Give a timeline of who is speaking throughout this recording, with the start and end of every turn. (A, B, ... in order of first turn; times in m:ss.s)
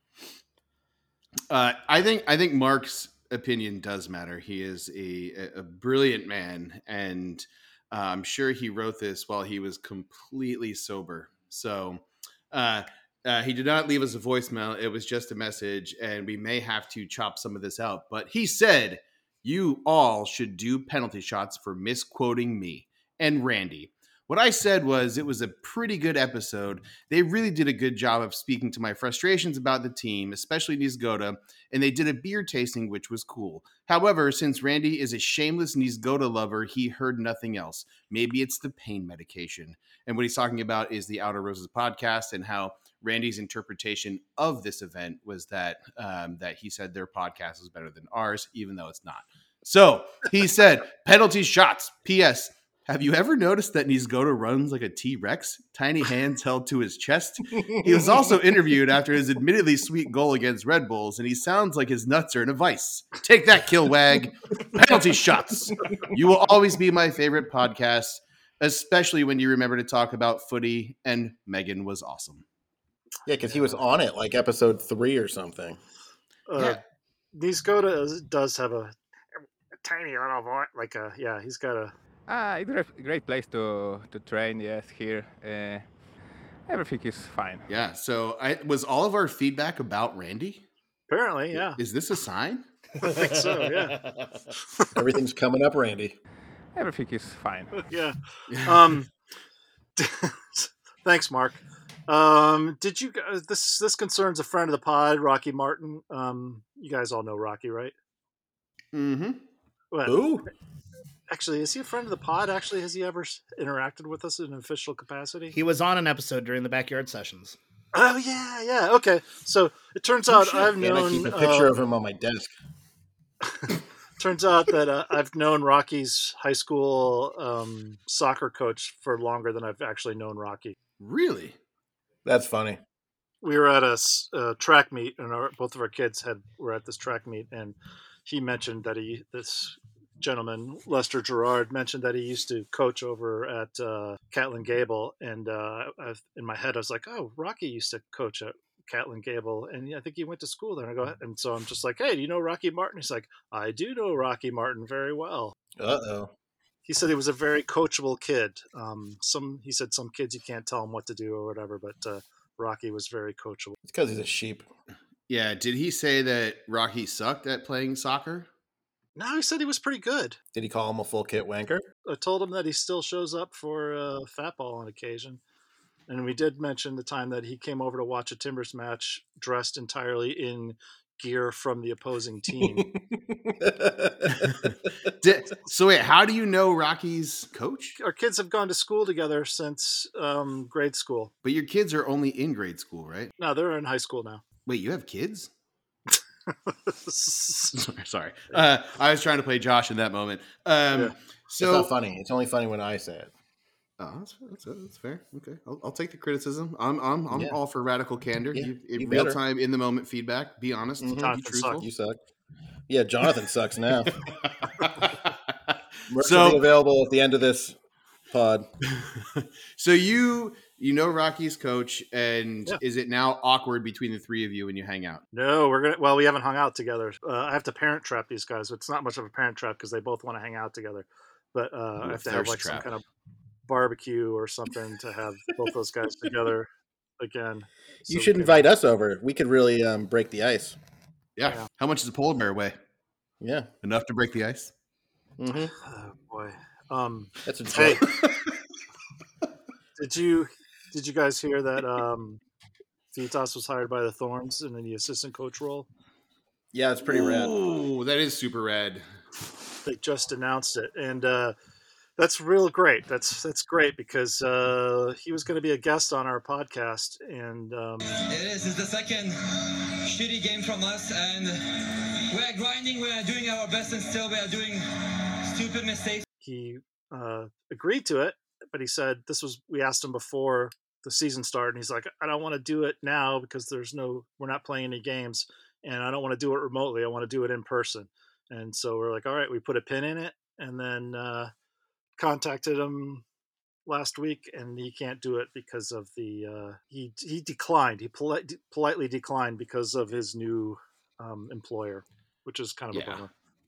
0:01.5-1:12.4 A
0:57.8-0:58.2 B
1:13.3-1:15.8 B
1:13.5-1:13.8 C
1:16.5-1:16.8 C
1:17.3-1:18.9 C
1:19.8-1:21.9 C
1:22.3-1:25.8 D
1:26.7-1:27.7 D
1:27.7-1:30.6 A
1:31.1-1:31.8 C
1:31.8-1:32.6 A
1:33.0-1:34.0 C
1:33.0-1:34.4 E
1:35.0-1:36.2 B
1:36.8-1:37.7 D
1:37.9-1:39.1 C
1:38.5-1:39.0 A
1:40.0-1:47.9 C
1:48.9-1:49.4 A
1:49.9-1:50.3 C
1:50.0-1:50.5 B
1:51.3-1:55.6 C
1:55.5-1:57.6 E
1:57.9-2:01.7 C
2:00.3-2:02.5 B
2:03.4-2:10.8 C
2:11.0-2:11.6 A
2:12.2-2:12.8 B
2:13.4-2:35.6 C
2:35.8-2:36.3 B
2:36.8-2:43.8 C
2:43.8-2:44.7 B
2:45.3-2:48.5 A
2:49.2-2:50.4 C
2:50.5-2:51.9 B
2:52.1-2:55.4 C
2:56.1-3:02.9 C
3:02.6-3:04.6 B
3:04.3-3:08.0 A
3:08.0-3:11.3 C
3:11.4-3:13.3 A
3:13.4-3:14.4 C
3:14.7-3:15.5 A
3:16.1-3:17.8 C
3:17.7-3:21.9 A
3:21.6-3:23.3 B
3:24.0-3:31.9 A
3:27.3-3:27.6 B
3:28.5-3:29.4 B
3:31.0-3:32.2 B
3:31.2-3:31.8 C
3:32.9-3:34.2 B
3:34.6-3:35.3 A
3:36.1-3:37.8 B
3:36.2-3:36.6 A
3:38.3-3:38.7 B
3:38.9-3:45.2 A
3:45.3-3:53.0 C
3:52.0-3:52.9 A
3:53.7-3:58.6 C
3:58.1-4:00.8 B
4:01.4-4:02.8 A
4:03.4-4:03.7 B
4:03.8-4:04.7 A
4:05.4-4:05.7 B
4:05.8-4:08.0 C
4:07.4-4:08.0 B
4:10.0-4:12.4 C
4:13.1-4:15.9 C
4:16.7-4:17.6 B
4:17.1-4:19.0 A
4:19.8-4:21.6 C
4:22.2-4:28.0 C
4:28.2-4:36.2 F
4:36.4-4:51.5 C
4:52.2-4:53.2 C
4:53.9-5:03.3 C
5:02.9-5:03.2 A